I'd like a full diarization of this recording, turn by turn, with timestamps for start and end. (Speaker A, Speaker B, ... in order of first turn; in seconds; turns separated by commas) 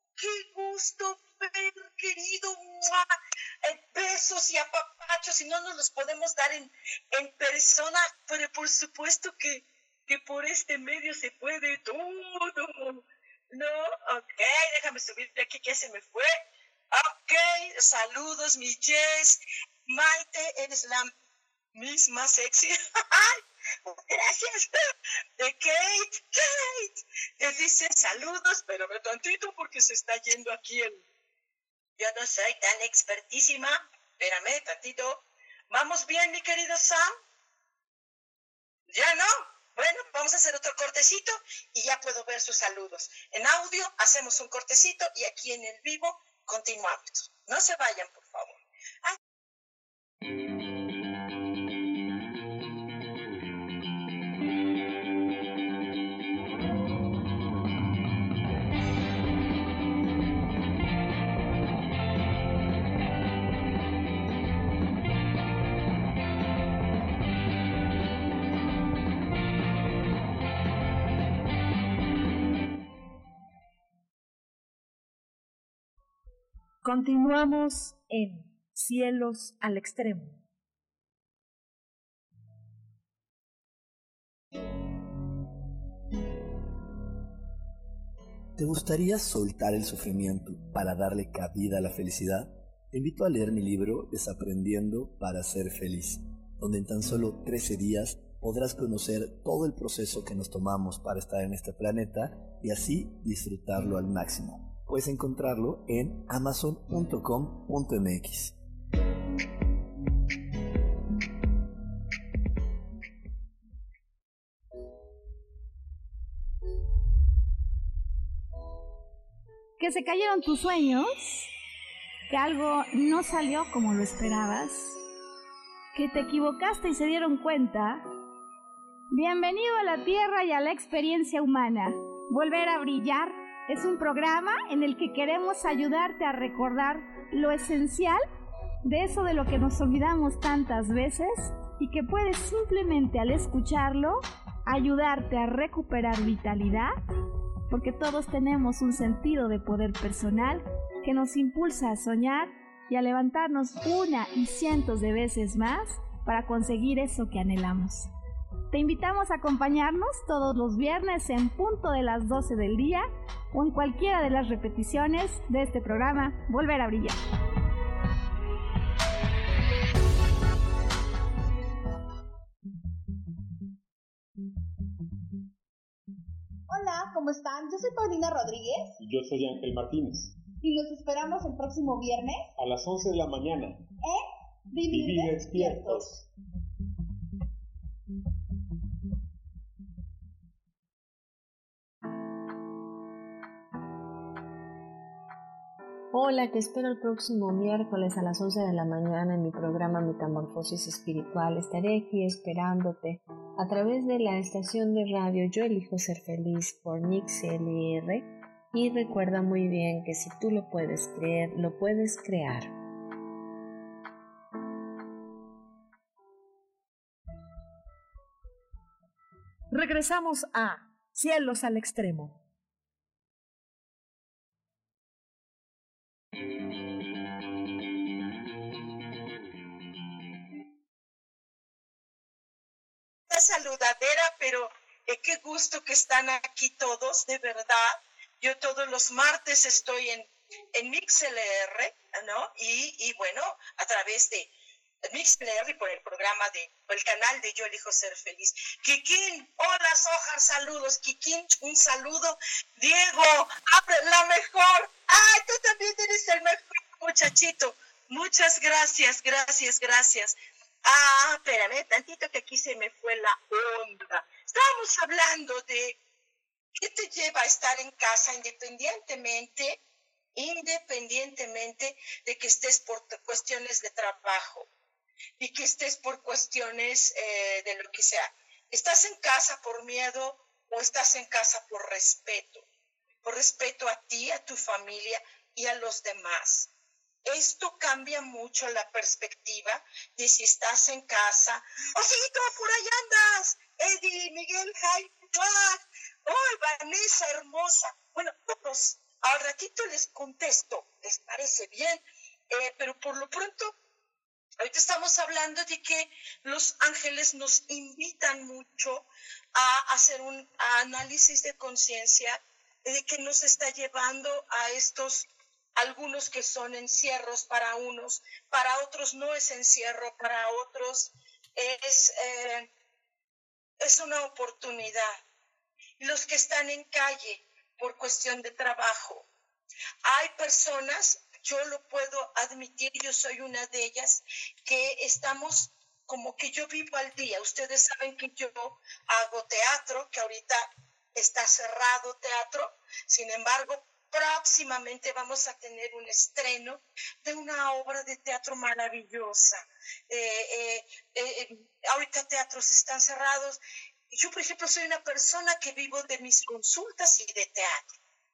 Speaker A: 0.2-16.4, Speaker A: 16.9-21.1, Speaker A: 21.7-24.8, Speaker A: 25.4-31.0, Speaker A: 32.0-37.1, Speaker A: 38.9-49.2, Speaker B: 76.8-80.4, Speaker C: 88.5-108.5, Speaker D: 119.8-121.5, Speaker D: 122.3-125.0, Speaker D: 125.9-128.0, Speaker D: 129.1-138.2, Speaker D: 138.8-146.9, Speaker D: 147.7-158.1, Speaker D: 158.7-167.2, Speaker E: 176.7-178.9, Speaker F: 179.0-180.4, Speaker E: 180.6-182.5, Speaker F: 182.6-183.9, Speaker E: 184.0-186.2, Speaker F: 184.8-186.2, Speaker G: 196.1-212.7, Speaker B: 219.7-222.4, Speaker A: 233.3-244.5, Speaker A: 245.0-266.0, Speaker A: 266.8-269.8, Speaker A: 270.3-274.7, Speaker A: 275.4-282.6, Speaker A: 283.2-286.7, Speaker A: 287.2-303.7, Speaker A: 304.6-322.7, Speaker A: 323.8-325.2, Speaker A: 326.0-329.3, Speaker A: 330.0-353.6, Speaker A: 354.1-357.9